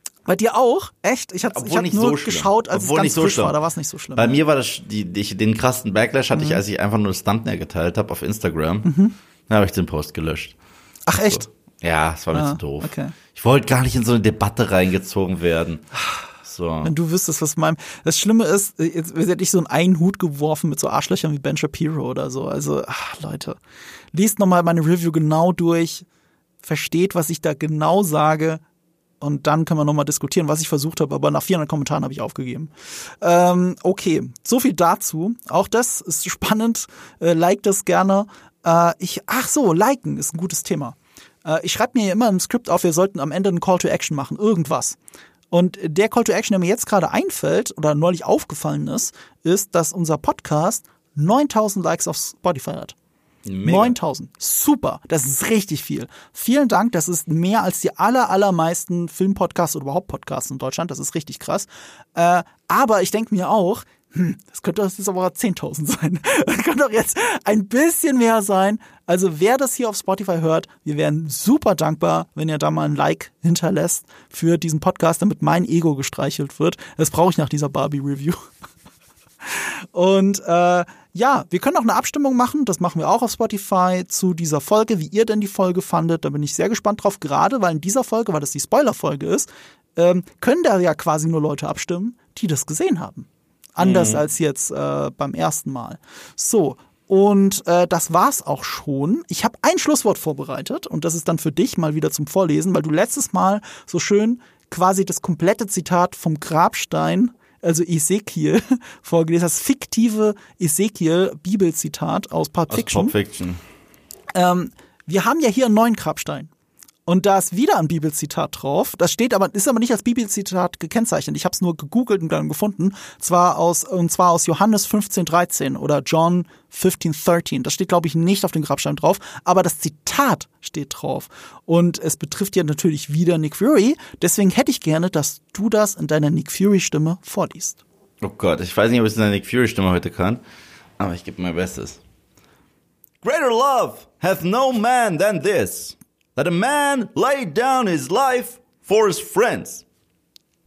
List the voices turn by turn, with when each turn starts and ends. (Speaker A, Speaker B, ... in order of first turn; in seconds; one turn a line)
Speaker A: 0.2-4.3
Speaker B: 1.5-3.5
Speaker B: 4.2-8.9
Speaker A: 6.3-6.6
Speaker A: 8.8-9.1
Speaker B: 9.5-10.5
Speaker A: 11.1-11.5
Speaker B: 11.1-15.8
Speaker A: 12.3-13.1
Speaker B: 16.4-16.9
Speaker A: 16.8-23.6
Speaker A: 24.1-26.1
Speaker A: 26.6-28.6
Speaker A: 29.2-45.0
Speaker A: 45.5-52.9
Speaker B: 53.4-53.9
Speaker A: 53.6-78.4
Speaker A: 79.4-113.1
Speaker B: 93.8-94.2
Speaker B: 112.7-113.6
Speaker A: 114.3-116.5
Speaker A: 117.1-137.8
Speaker B: 138.2-140.4
Speaker B: 141.0-142.0
Speaker B: 143.2-149.8